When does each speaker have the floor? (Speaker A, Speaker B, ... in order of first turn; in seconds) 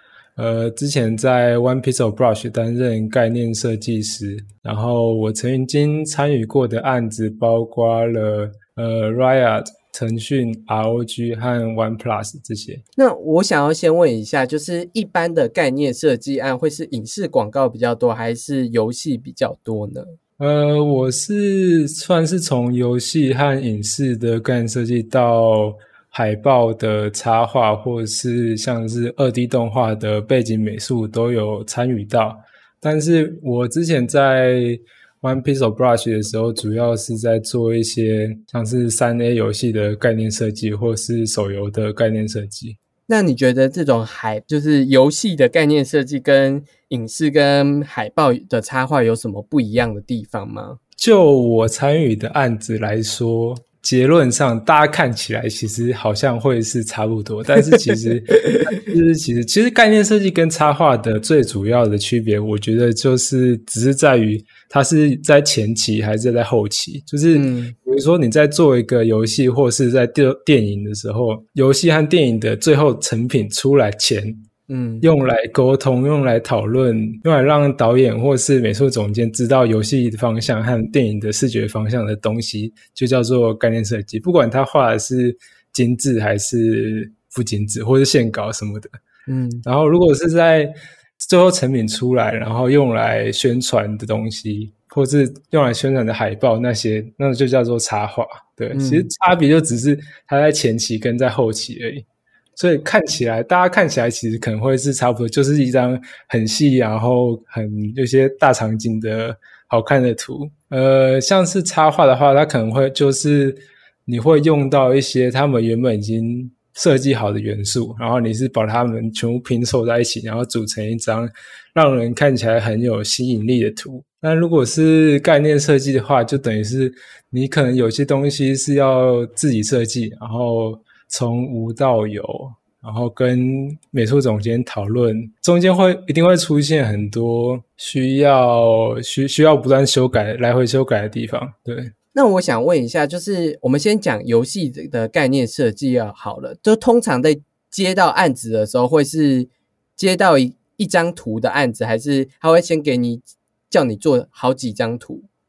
Speaker A: 0.3-12.8, 20.4-42.8, 51.0-74.5, 75.0-88.9, 89.6-102.0, 102.5-141.9
Speaker B: 13.0-20.1, 43.1-50.8, 67.3-67.7, 74.7-75.1, 89.3-89.6, 98.7-99.1, 142.1-155.3